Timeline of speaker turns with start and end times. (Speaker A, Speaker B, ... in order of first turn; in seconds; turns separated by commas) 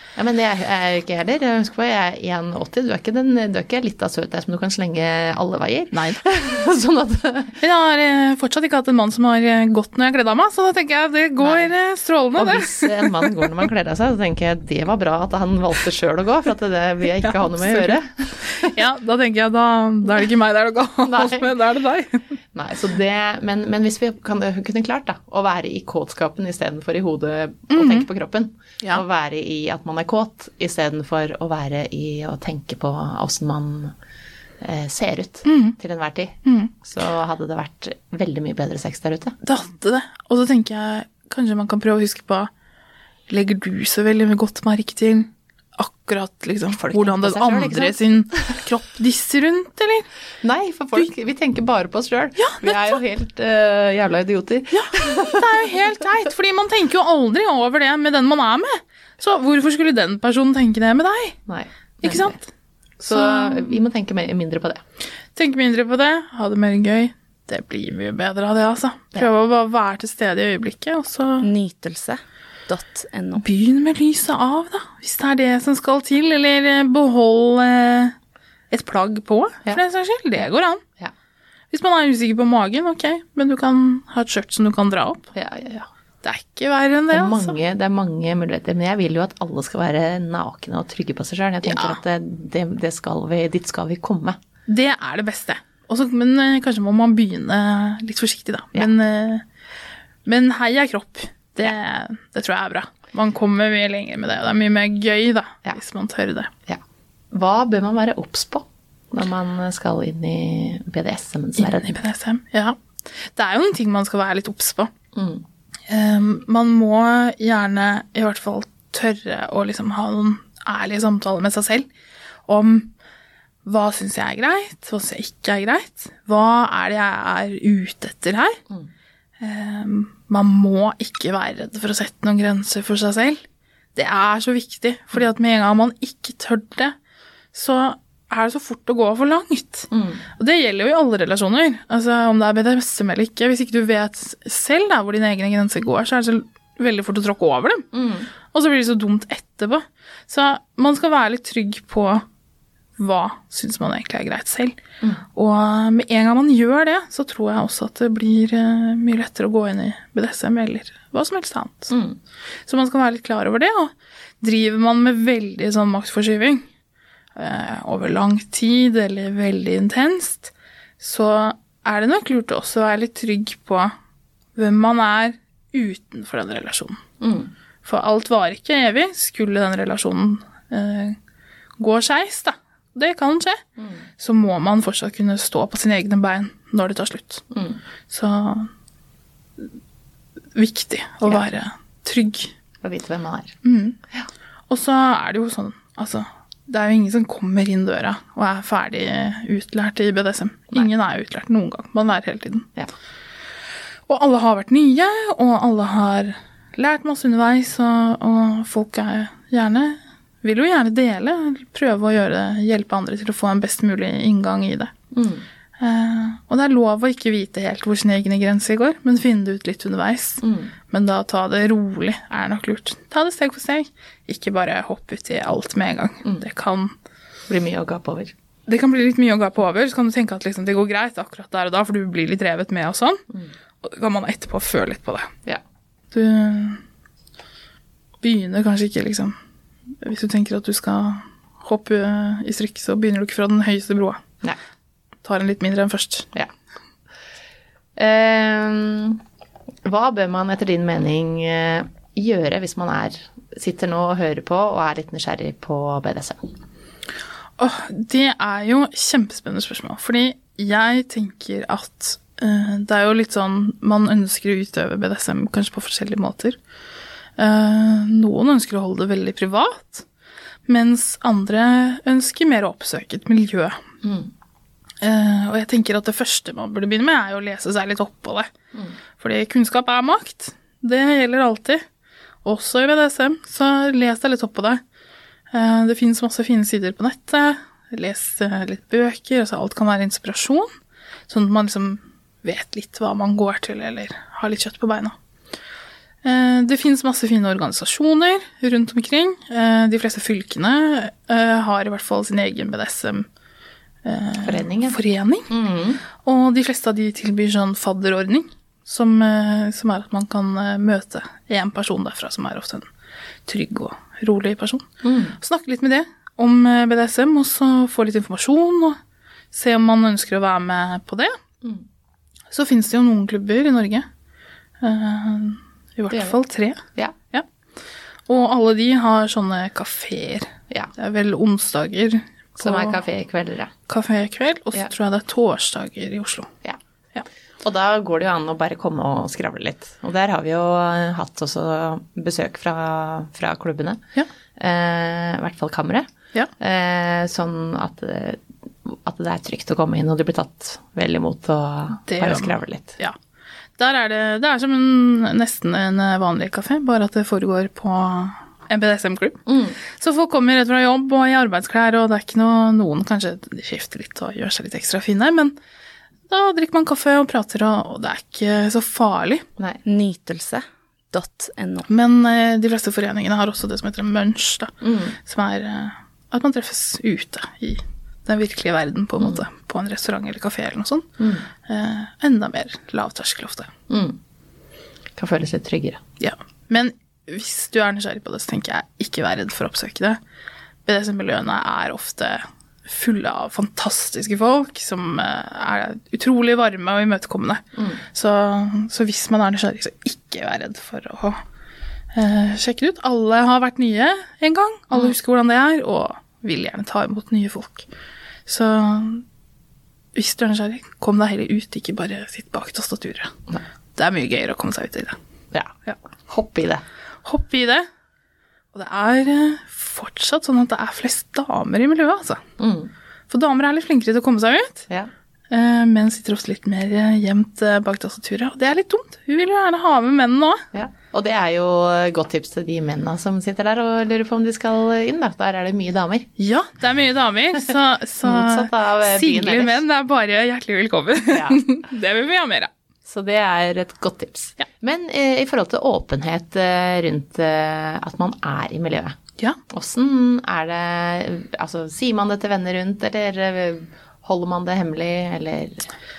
Speaker A: 0.1-7.6, Speaker B: 5.9-6.2, Speaker B: 7.6-13.3, Speaker A: 11.4-11.7, Speaker A: 12.3-18.7, Speaker B: 17.2-18.0, Speaker B: 18.5-22.4, Speaker A: 21.0-21.6, Speaker A: 22.5-33.9, Speaker B: 27.7-28.1, Speaker A: 34.6-39.3, Speaker B: 35.4-35.8, Speaker B: 36.4-36.7, Speaker B: 39.4-42.5, Speaker B: 43.3-50.1, Speaker A: 46.7-48.4, Speaker A: 50.4-55.8, Speaker B: 52.4-53.0, Speaker B: 54.7-61.4, Speaker A: 61.5-62.4, Speaker B: 62.0-62.5, Speaker B: 63.0-63.8, Speaker A: 63.1-64.8, Speaker B: 65.3-71.5, Speaker C: 71.4-73.4, Speaker B: 73.3-78.2, Speaker B: 78.7-80.8, Speaker B: 81.7-85.3, Speaker A: 85.3-85.9, Speaker B: 86.2-87.6, Speaker A: 87.1-94.4, Speaker B: 91.6-92.0, Speaker B: 94.7-99.4, Speaker B: 100.2-106.5, Speaker A: 107.3-112.0, Speaker B: 111.6-114.9, Speaker A: 115.1-115.4, Speaker B: 115.9-121.9, Speaker B: 122.5-122.9, Speaker B: 123.6-128.6, Speaker B: 129.4-133.4, Speaker B: 133.9-136.9, Speaker B: 137.5-147.9, Speaker A: 139.9-140.2, Speaker A: 147.9-148.3, Speaker B: 148.5-152.2, Speaker B: 153.0-154.8, Speaker B: 155.3-161.9, Speaker A: 161.9-162.2, Speaker B: 162.7-166.6, Speaker B: 167.3-173.9, Speaker B: 174.6-177.0, Speaker A: 177.2-177.5, Speaker B: 177.8-181.2, Speaker B: 181.8-183.6, Speaker B: 184.2-187.4, Speaker A: 187.5-187.8, Speaker B: 188.1-188.7, Speaker B: 190.5-192.6, Speaker A: 192.8-193.6, Speaker B: 193.6-194.0, Speaker B: 194.7-202.7, Speaker B: 204.1-214.9, Speaker A: 215.1-215.4, Speaker B: 215.8-226.9, Speaker A: 220.4-220.7, Speaker A: 227.5-228.3, Speaker B: 228.7-233.2, Speaker B: 233.8-235.3, Speaker B: 236.1-236.8, Speaker B: 238.2-239.3, Speaker B: 240.0-244.2, Speaker B: 245.2-246.3, Speaker A: 247.9-249.2, Speaker A: 249.8-256.5, Speaker B: 257.6-266.6, Speaker B: 267.4-270.1, Speaker B: 270.6-273.8, Speaker A: 274.0-274.3, Speaker B: 275.0-278.5, Speaker A: 278.7-279.0, Speaker B: 279.2-281.8, Speaker B: 282.4-284.8, Speaker B: 285.5-290.7, Speaker B: 291.3-295.1, Speaker B: 296.2-303.3, Speaker B: 304.0-305.5, Speaker A: 304.4-305.0, Speaker A: 305.5-306.0, Speaker B: 306.2-312.9, Speaker B: 313.4-314.9, Speaker A: 315.0-315.4, Speaker B: 315.4-319.0, Speaker B: 319.5-321.4, Speaker B: 322.5-324.1, Speaker B: 324.8-327.4, Speaker A: 326.1-326.4, Speaker B: 328.3-333.0, Speaker A: 332.6-333.7, Speaker B: 333.9-336.5, Speaker A: 337.6-344.0, Speaker A: 344.6-346.1, Speaker A: 346.6-353.0, Speaker B: 352.1-353.1, Speaker B: 353.8-365.5, Speaker A: 359.5-359.8, Speaker B: 366.3-369.4, Speaker A: 369.6-369.8, Speaker C: 369.8-371.8, Speaker B: 371.9-381.1, Speaker A: 374.8-375.1, Speaker A: 379.2-379.4, Speaker A: 381.2-381.5, Speaker B: 381.6-383.7, Speaker A: 383.9-384.2, Speaker A: 385.1-386.0, Speaker B: 386.2-390.2, Speaker B: 390.9-401.4, Speaker B: 402.1-407.9, Speaker B: 408.4-409.2, Speaker B: 410.1-413.3, Speaker B: 413.9-415.1, Speaker A: 416.3-416.8, Speaker B: 417.2-417.9, Speaker B: 418.7-422.4, Speaker A: 422.6-422.9, Speaker B: 423.3-424.9, Speaker B: 425.5-430.6, Speaker A: 430.7-436.3, Speaker B: 436.4-442.7, Speaker A: 438.2-439.8, Speaker A: 441.3-441.6, Speaker A: 443.0-449.1, Speaker A: 449.7-455.9